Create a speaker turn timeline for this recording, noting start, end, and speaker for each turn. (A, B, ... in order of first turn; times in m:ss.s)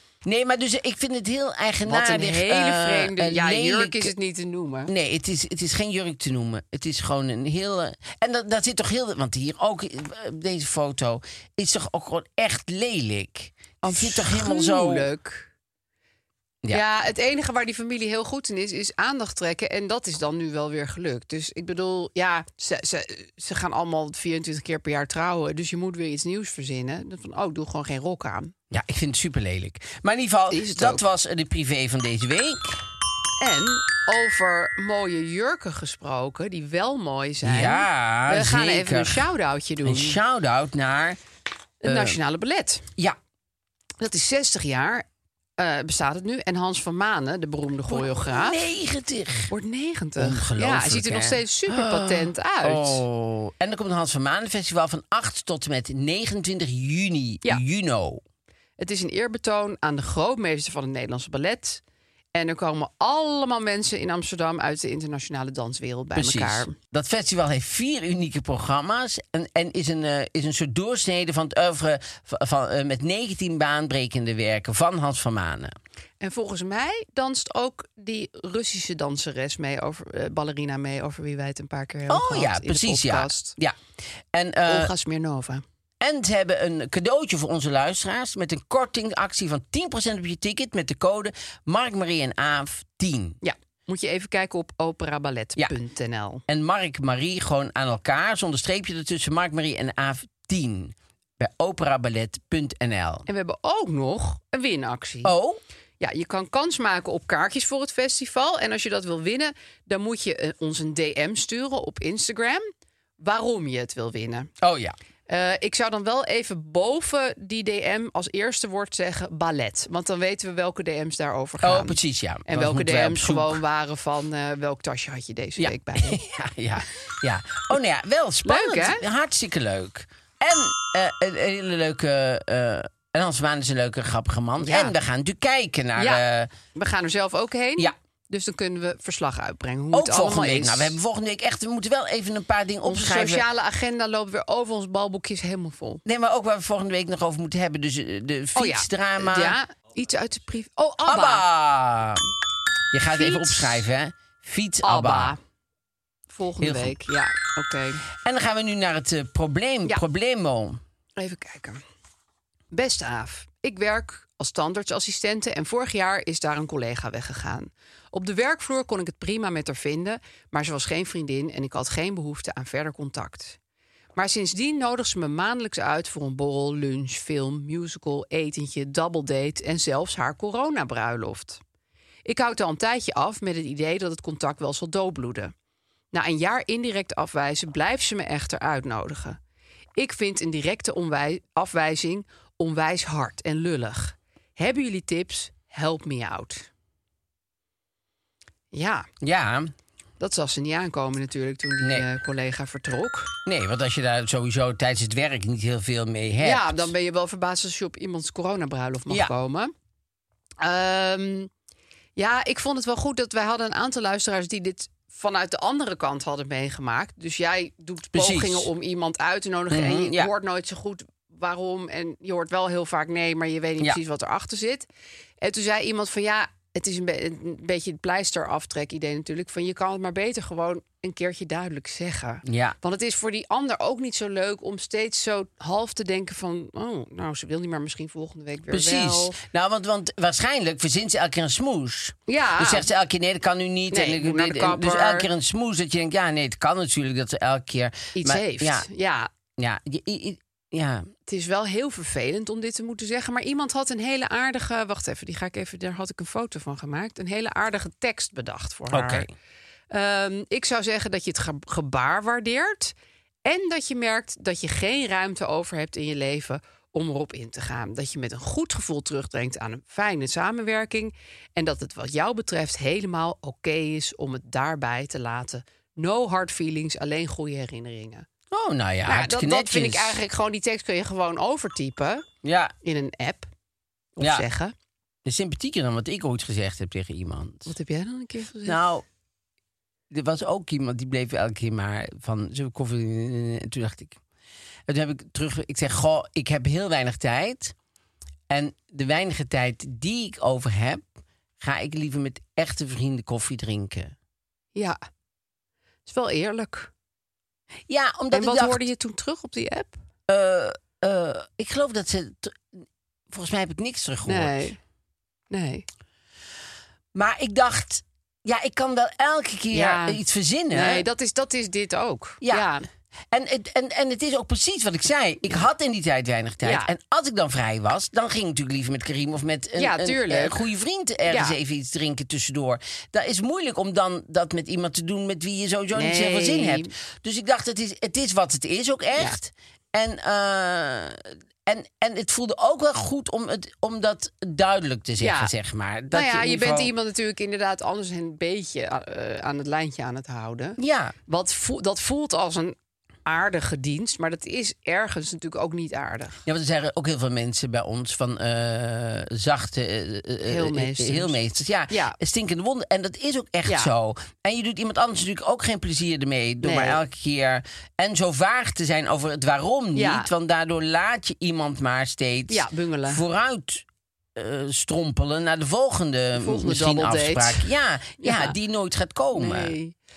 0:00.2-0:04.1 A
0:01.8-0:04.9 B
0:04.9-0:15.1 A
0:13.8-0:15.5 B
0:16.7-0:28.5 B
0:28.7-0:32.8 A
0:30.5-0:31.0 B
0:33.4-0:40.2 B
0:37.4-0:39.3 A
0:39.8-0:41.2 A
0:41.8-0:42.9 B
0:41.8-0:42.2 A
0:44.0-0:45.0 B
0:45.6-0:48.6 B
0:47.9-0:49.5 A
0:49.5-0:53.0 B
0:50.2-0:58.2 A
0:58.8-1:01.8 B
1:02.3-1:06.7 B
1:06.2-1:15.8 A
1:16.2-1:23.6 B
1:22.1-1:23.8 A
1:24.3-1:24.9 A
1:24.6-1:25.6 B
1:26.0-1:33.4 A
1:33.4-1:36.4 B
1:36.5-1:43.3 A
1:43.3-1:45.3 B
1:45.2-1:45.6 A
1:46.0-1:52.6 B
1:53.2-1:54.5 B
1:54.6-1:55.0 A
1:55.3-2:06.2 B
2:01.6-2:03.6 A
2:05.6-2:16.5 A
2:08.4-2:09.0 B
2:14.6-2:14.9 B
2:16.0-2:16.2 B
2:16.7-2:21.0 B
2:19.9-2:23.4 A
2:22.8-2:26.0 B
2:26.0-2:29.6 A
2:28.5-2:31.4 B
2:31.0-2:32.3 A
2:32.9-2:35.3 A
2:33.1-2:33.8 B
2:34.8-2:35.4 B
2:36.3-2:38.0 B
2:36.6-2:37.0 A
2:38.1-2:40.8 A
2:41.2-2:41.8 B
2:42.7-2:53.6 B
2:54.2-3:01.6 B
3:02.2-3:05.5 B
3:06.1-3:09.4 B
3:10.0-3:16.7 B
3:18.7-3:19.1 B
3:19.2-3:19.7 A
3:20.2-3:23.3 B
3:23.4-3:26.9 A
3:26.4-3:29.7 B
3:30.6-3:31.5 B
3:32.2-3:44.9 B
3:38.1-3:38.7 A
3:39.7-3:40.3 A
3:45.4-3:59.4 B
3:52.4-3:52.8 A
3:58.7-4:08.9 A
4:02.3-4:02.9 B
4:03.9-4:05.3 B
4:08.1-4:09.3 B
4:09.6-4:11.1 A
4:11.3-4:19.3 B
4:18.9-4:19.3 A
4:19.9-4:22.9 B
4:23.4-4:38.3 B
4:38.5-4:40.2 A
4:39.0-4:42.2 B
4:42.4-4:42.7 A
4:42.8-4:43.5 B
4:44.2-4:44.7 B
4:44.2-4:44.5 A
4:45.2-4:47.7 A
4:47.6-4:48.8 B
4:48.6-4:49.0 A
4:50.1-4:54.2 A
4:54.9-4:57.7 A
4:58.5-5:01.0 A
5:01.6-5:04.1 A
5:06.0-5:06.9 B
5:07.9-5:08.8 A
5:08.3-5:10.0 B
5:10.3-5:14.7 A
5:14.2-5:14.8 B
5:15.5-5:15.8 B
5:17.1-5:21.1 A
5:19.7-5:20.2 B
5:20.7-5:22.8 B
5:22.4-5:22.7 A
5:23.3-5:46.9 A
5:26.6-5:26.9 B
5:29.8-5:30.6 B
5:31.2-5:31.6 B
5:35.9-5:36.9 B
5:45.2-5:45.5 B
5:46.1-5:56.4 B
5:50.8-5:51.2 A
5:56.4-6:19.8 A
6:00.5-6:02.2 B
6:03.6-6:03.9 B
6:06.6-6:07.0 B
6:09.9-6:10.3 B
6:12.5-6:13.2 B
6:16.3-6:18.5 B
6:19.3-6:19.9 B